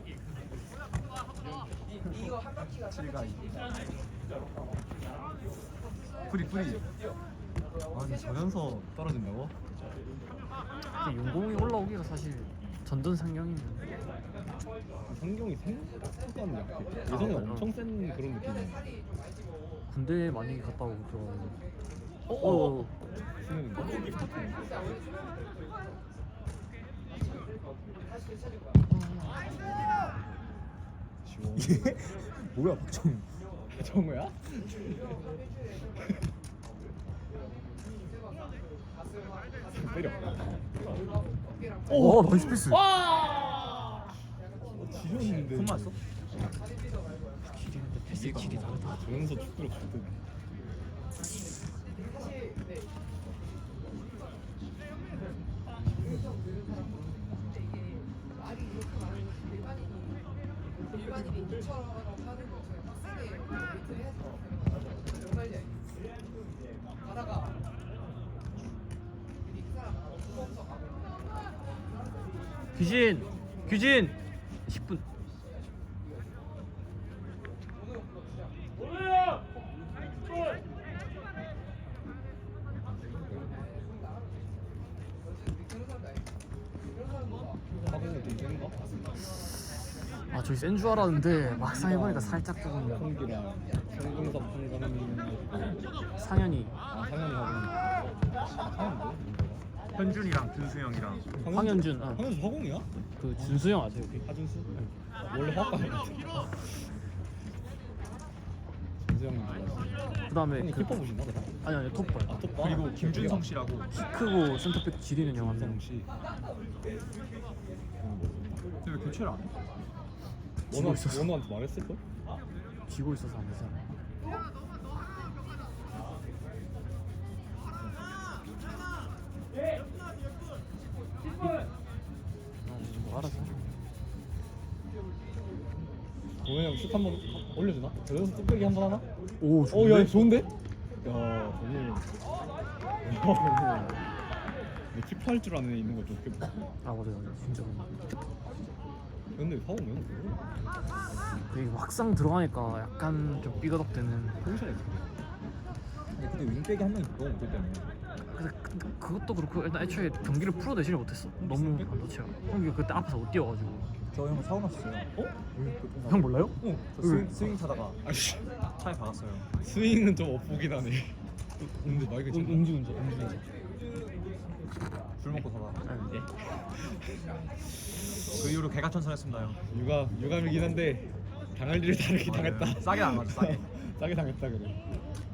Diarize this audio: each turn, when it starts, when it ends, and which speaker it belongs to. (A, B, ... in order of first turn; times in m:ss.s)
0:02.9-0:03.7 A
0:06.3-0:06.8 B
0:07.9-0:09.6 B
0:11.0-0:13.9 C
0:15.1-0:18.9 B
0:17.1-0:17.7 C
0:19.9-0:21.6 C
0:22.3-0:22.9 C
0:22.4-0:22.9 B
0:23.4-0:24.7 B
0:31.2-0:32.0 B
0:31.6-0:33.3 A
0:33.7-0:34.9 B
0:39.7-0:40.4 B
0:41.9-0:42.8 C
0:41.9-0:43.9 B
0:42.0-0:42.7 A
0:44.8-0:46.0 B
0:45.1-0:46.0 A
0:47.5-0:49.0 C
0:48.1-0:50.2 B
1:12.8-1:15.0 C
1:22.8-1:23.6 B
1:27.9-1:28.9 B
1:30.3-1:33.1 C
1:31.4-1:35.8 B
1:36.2-1:36.8 C
1:36.9-1:39.7 B
1:39.9-1:41.3 A
1:41.4-1:43.6 B
1:41.5-1:42.3 C
1:43.2-1:44.9 C
1:44.2-1:44.7 B
1:45.3-1:46.6 B
1:49.0-1:51.5 B
1:50.3-1:51.1 C
1:51.6-1:52.5 C
1:52.3-1:53.5 B
1:52.6-1:53.9 A
1:53.9-1:55.8 C
1:55.3-1:56.1 B
1:58.0-1:58.6 B
1:58.8-1:59.6 A
2:00.7-2:01.3 C
2:00.7-2:02.0 B
2:02.9-2:03.9 C
2:12.7-2:13.8 C
2:12.8-2:13.5 B
2:16.4-2:19.1 B
2:19.4-2:20.3 C
2:19.7-2:20.5 B
2:21.0-2:22.1 B
2:23.0-2:24.1 B
2:24.9-2:26.7 B
2:26.8-2:27.9 C
2:29.4-2:30.4 B
2:31.5-2:34.4 C
2:34.4-2:35.2 B
2:36.1-2:37.9 A
2:38.3-2:44.0 C
2:41.4-2:42.0 B
2:44.1-2:48.0 A
2:46.1-2:47.3 C
2:46.6-2:47.2 B
2:48.0-2:48.5 B
2:48.8-2:49.5 A
2:49.6-2:51.2 B
2:51.8-2:52.8 B
2:51.9-2:53.4 C
2:55.2-2:55.9 A
2:56.0-2:57.3 B
2:57.9-2:58.5 B
2:58.3-2:59.6 A
2:59.4-3:04.8 B
3:02.2-3:03.7 A